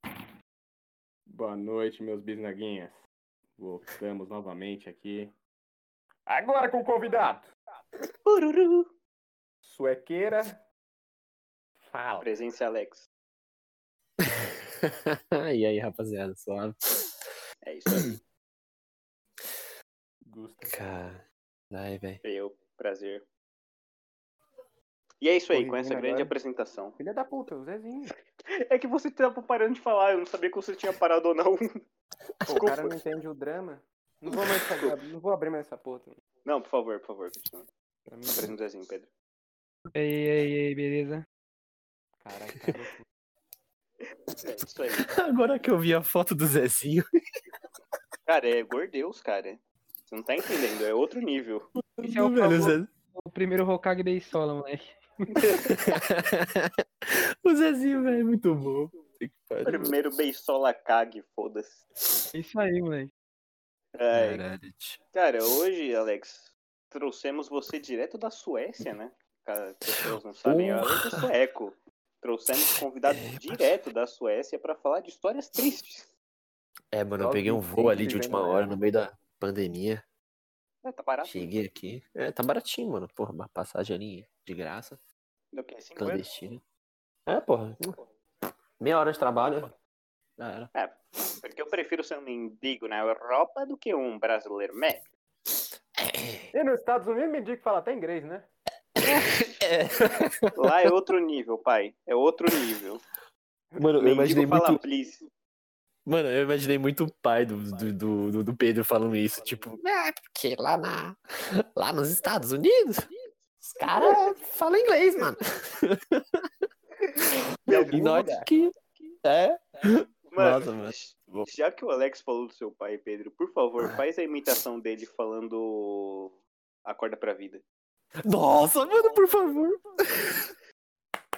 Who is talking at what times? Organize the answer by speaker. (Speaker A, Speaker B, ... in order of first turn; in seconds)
Speaker A: 1.3-3.0, 3.6-5.3, 6.3-7.5, 9.7-10.6, 11.8-12.3, 20.3-20.8, 25.5-26.3, 27.0-28.2, 32.5-36.2, 38.1-38.6, 42.2-43.0, 77.2-78.8, 96.5-98.5, 117.7-118.5
Speaker B: 8.2-8.9, 12.2-13.1, 17.6-18.2, 22.2-23.2, 25.2-27.0, 28.5-31.7, 32.6-32.9, 36.5-37.7, 38.4-39.1, 44.4-45.1, 48.3-51.7, 55.3-55.7, 59.6-61.9, 64.0-64.4, 65.2-76.1, 80.8-81.5, 85.5-86.2, 89.3-89.7, 90.8-95.1, 100.6-103.0, 104.0-105.2, 113.9-114.3, 117.7-118.4, 120.3-127.6
Speaker C: 14.2-17.1, 20.7-22.2, 45.0-47.0, 51.9-52.9, 55.5-60.0, 64.1-65.0, 70.0-71.2, 73.2-73.7, 76.9-80.0, 81.2-85.0, 86.0-86.6, 87.3-88.0, 88.8-89.7, 90.4-90.7, 96.0-96.5, 99.0-100.6, 103.8-104.8, 106.1-113.1, 113.6-116.4, 117.9-121.5, 128.2-130.5
Speaker D: 40.0-41.2, 52.0-55.6, 62.3-63.1